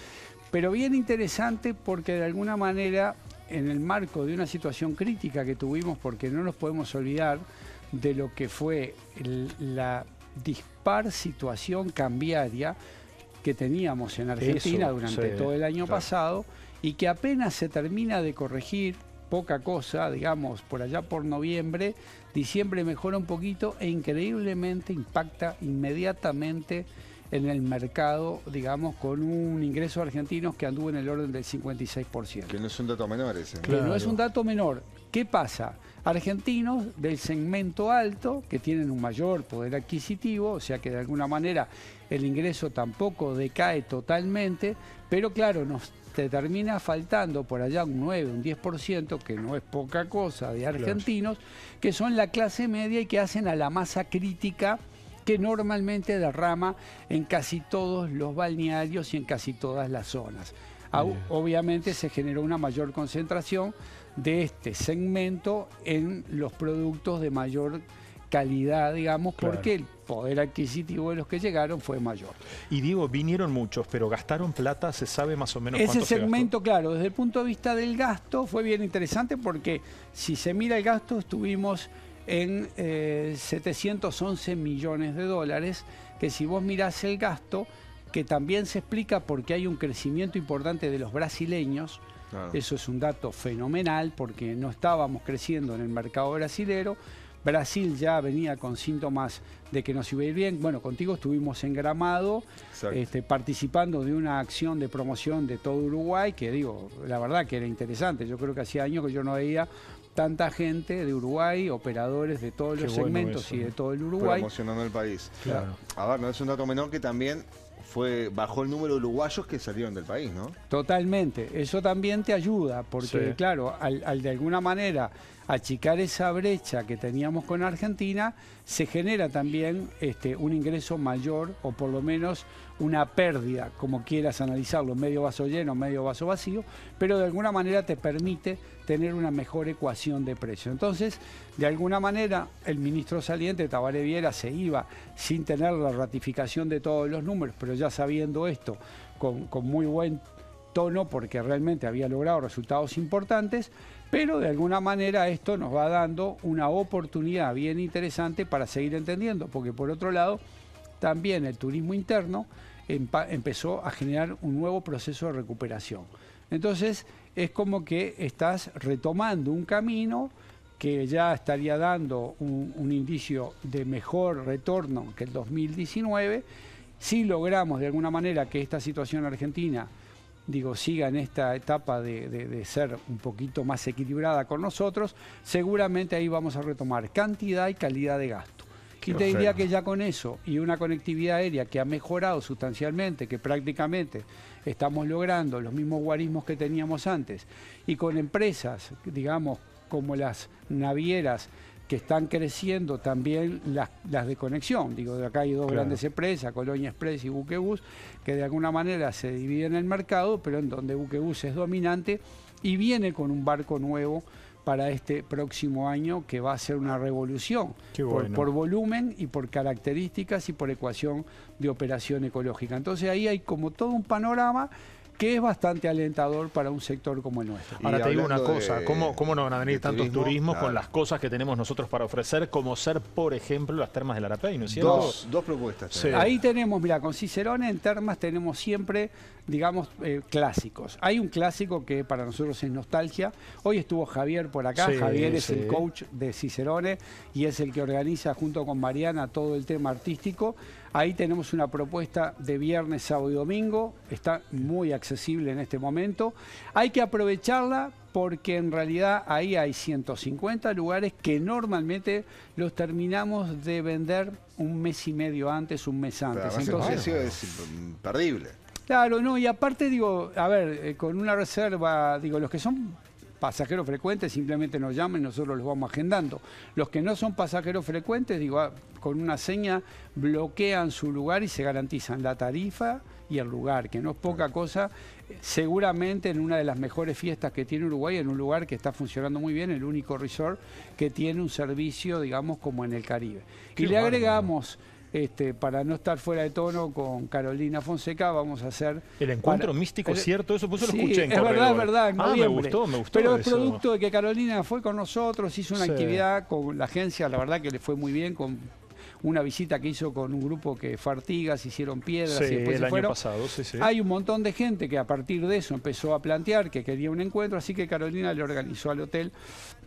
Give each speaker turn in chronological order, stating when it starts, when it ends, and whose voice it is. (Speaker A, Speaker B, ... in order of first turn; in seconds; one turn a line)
Speaker A: 0.5-12.8
Speaker A: 13.4-32.6
Speaker B: 14.4-15.5
Speaker C: 32.5-33.9
Speaker A: 33.6-72.4
Speaker B: 33.6-34.1
Speaker B: 69.4-69.7
Speaker B: 72.7-76.5
Speaker A: 75.7-114.5
Speaker C: 92.3-92.6
Speaker C: 102.7-103.0
Speaker B: 112.8-113.7
Speaker C: 114.2-120.6
Speaker B: 115.4-115.8
Speaker A: 120.7-160.4
Speaker B: 123.0-123.4
Speaker A: 161.0-176.4
Speaker A: 177.0-179.9
Speaker A: 180.5-227.8
Speaker C: 189.1-189.5
Speaker B: 205.7-205.9
Speaker B: 217.9-218.5
Speaker C: 227.8-230.8
Speaker B: 227.8-235.2
Speaker C: 234.7-236.3
Speaker B: 235.9-236.3
Speaker A: 236.1-267.1
Speaker B: 244.8-245.8
Speaker C: 266.3-268.6
Speaker B: 266.6-267.2
Speaker A: 268.9-308.7
Speaker B: 293.8-294.5
Speaker B: 299.2-303.8
Speaker B: 305.8-306.2
Speaker A: 309.2-313.2
Speaker B: 312.3-313.9
Speaker A: 313.8-319.3